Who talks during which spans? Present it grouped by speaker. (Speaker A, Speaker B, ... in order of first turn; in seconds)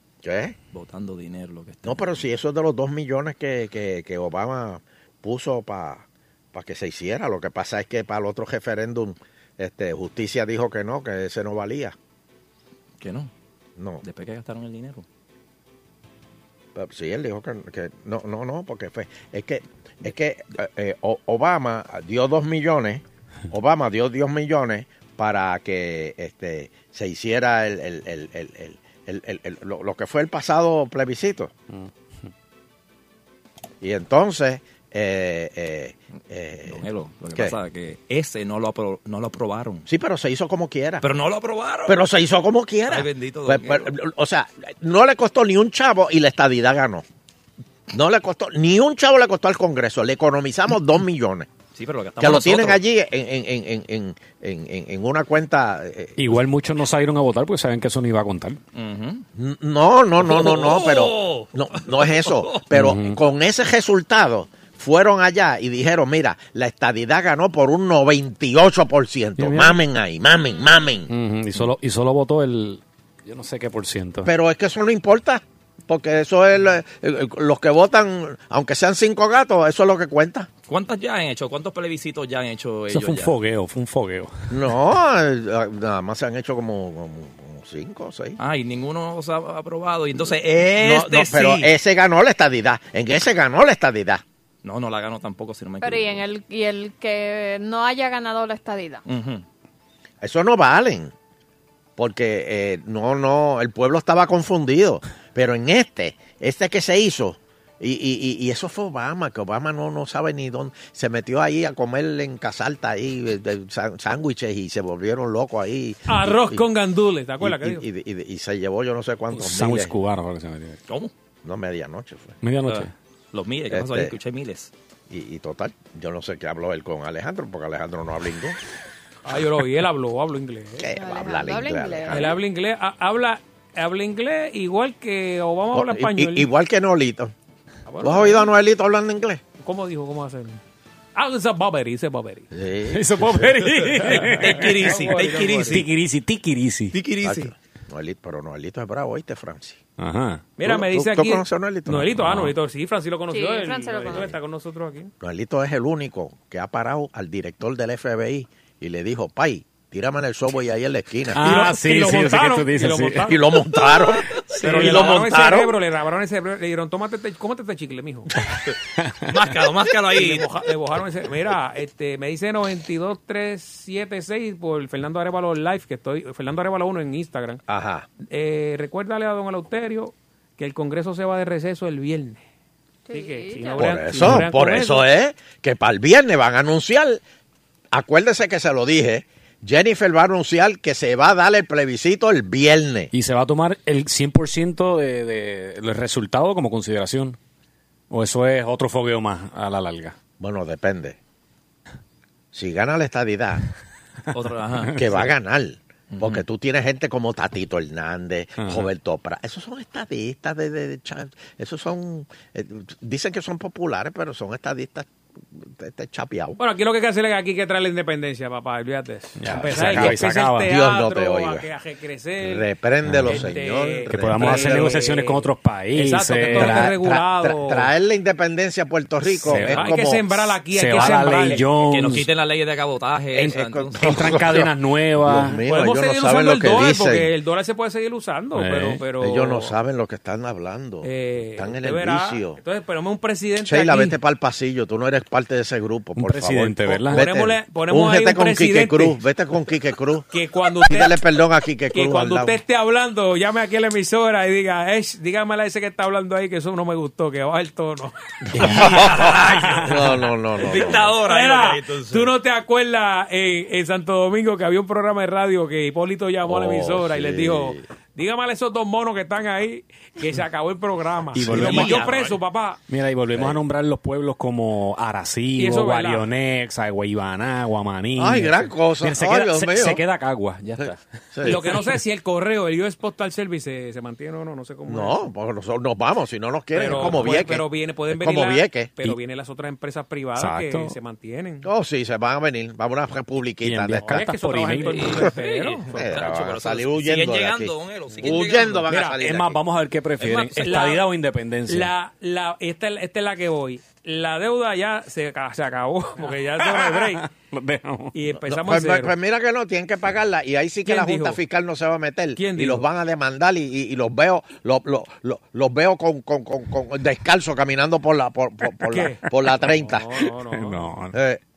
Speaker A: 0.2-0.6, 1.8-11.9, 13.8-14.0, 16.7-31.5, 33.8-37.5, 39.9-41.0, 41.9-47.0, 47.9-51.5, 52.2-56.4, 59.4-71.1, 74.2-80.5, 84.5-88.4, 90.6-94.2, 100.2-101.1, 102.0-116.6, 117.4-119.9, 121.4-122.4, 123.7-124.1, 125.1-128.6, 130.8-132.4, 135.7-137.3, 138.0-139.4, 142.5-143.6, 147.2-149.8, 150.6-152.4, 155.2-161.5, 163.2-165.8, 177.7-178.1, 183.8-187.2, 187.9-193.1, 200.4-201.2, 202.5-203.6, 204.9-216.6, 219.5-221.7, 222.4-225.1, 226.4-230.6, 233.4-237.3, 239.2-242.6, 243.6-250.2, 250.8-252.6, 258.5-261.1, 266.4-267.8, 271.5-271.9, 278.1-280.0, 280.8-281.7, 284.9-288.9, 291.6-294.3, 295.9-299.6, 308.4-320.2, 321.1-321.4
Speaker B: 0.7-2.2, 13.0-13.3, 14.0-15.0, 36.7-39.9, 41.0-42.0, 42.9-43.9, 51.7-52.8, 58.7-59.2, 60.2-62.6, 80.7-83.3, 88.4-91.7, 94.6-96.2, 99.0-99.4, 122.7-124.7, 144.1-145.8, 146.9-147.5, 169.3-170.4, 204.3-205.2, 206.1-206.4, 231.8-234.0, 258.6-260.0, 260.6-262.3, 271.5-272.3, 294.9-298.9
Speaker C: 56.2-58.6, 62.7-63.2, 69.4-69.8, 71.1-74.3, 82.9-84.5, 119.3-120.8, 122.4-122.9, 142.9-145.0, 145.7-147.0, 150.0-150.5, 152.1-152.5, 161.3-163.3, 193.1-197.4, 198.1-200.2, 208.6-208.8, 219.4-220.7, 223.1-223.5, 224.1-227.0, 229.3-229.9, 230.7-232.3, 233.4-235.6, 238.5-239.0, 246.2-247.2, 271.3-272.1, 272.9-281.7, 286.8-287.4, 290.4-290.9, 293.6-295.3, 299.0-301.9, 306.6-308.1, 320.4-321.1
Speaker D: 95.8-99.0, 130.9-132.3, 153.3-154.3, 183.1-184.0
Speaker E: 116.1-117.8, 129.2-130.9, 132.1-136.5, 137.8-138.5, 139.6-140.6, 141.2-142.5, 144.3-145.8, 150.6-155.1, 161.4-163.4, 164.6-168.3, 170.2-177.6, 178.2-182.4, 183.1-185.0, 216.6-222.7, 223.2-227.9, 229.5-231.7, 235.6-239.7, 241.0-244.2, 247.1-249.2, 250.3-251.2, 251.9-258.1, 261.2-272.8, 275.6-276.3, 281.4-285.2, 286.7-291.7, 294.0-296.1, 298.9-299.2, 300.2-301.1, 301.7-307.3, 308.1-309.1, 310.8-311.4, 312.4-312.9, 318.8-320.8